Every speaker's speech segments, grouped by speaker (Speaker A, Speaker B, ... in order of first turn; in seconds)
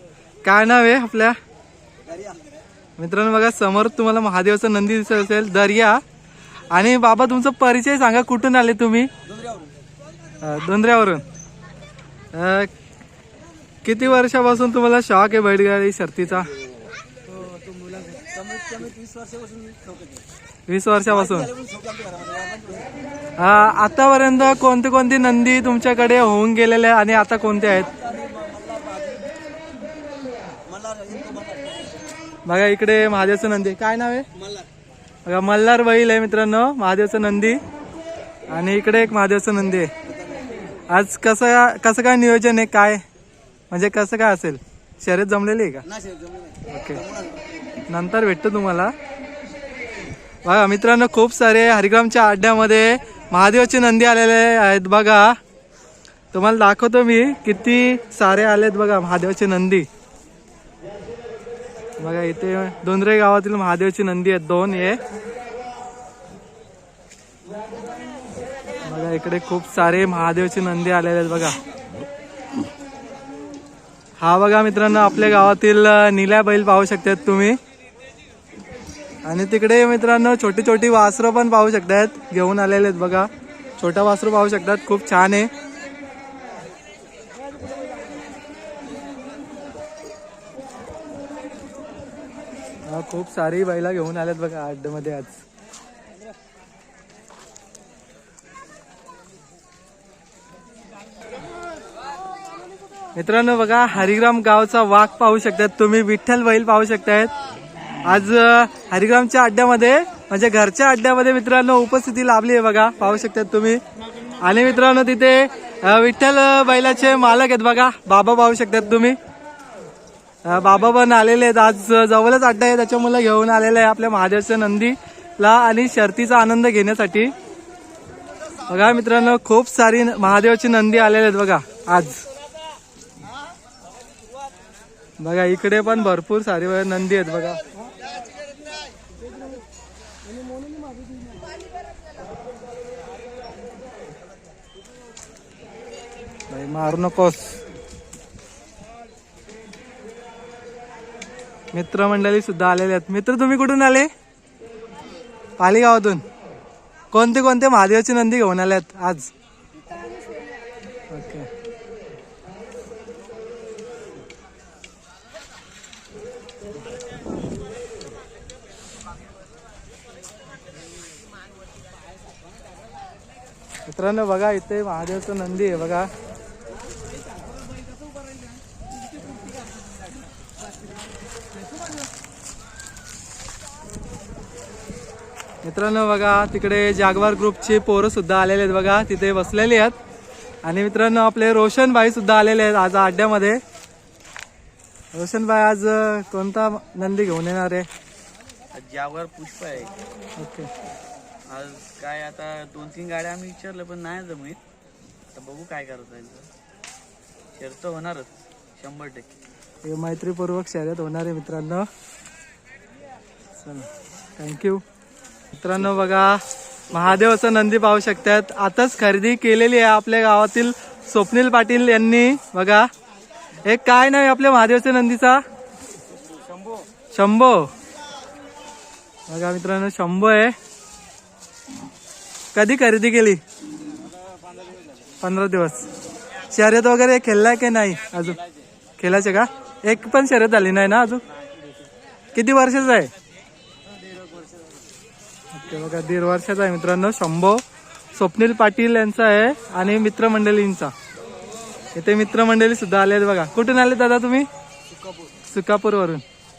Speaker A: 0.4-1.4, 3.0-6.0, 6.7-9.1, 10.4-11.2, 12.3-12.7, 13.8-16.5, 20.7-21.6, 23.4-27.9, 32.5-34.3, 35.2-37.6, 38.5-39.9, 40.9-43.0, 43.7-45.9, 46.7-47.0, 47.9-48.9, 50.4-55.4, 56.3-59.9, 62.0-65.0, 68.8-71.6, 74.2-77.6, 79.3-85.5, 92.9-95.4, 103.2-107.3, 108.0-113.8, 114.4-119.2, 120.5-127.3, 128.7-132.2, 135.2-137.6, 146.5-147.6, 151.7-154.1, 155.6-156.2, 157.1-159.3, 161.1-161.5, 173.9-176.1, 185.6-190.0, 190.6-193.6, 195.1-197.9, 200.4-200.7, 209.8-211.9, 213.6-213.9, 214.4-214.8, 215.5-222.9, 223.7-225.4, 227.1-227.7, 229.3-230.6, 232.5-233.4, 235.2-235.9, 236.5-238.4, 239.0-241.2, 242.3-243.1, 245.5-247.6, 248.1-250.9, 251.9-254.5, 255.5-256.2
Speaker B: 17.5-20.2, 21.6-22.9, 28.0-29.3, 30.7-31.9, 46.0-46.6, 198.7-199.9, 201.5-204.6, 205.3-206.5, 207.5-209.4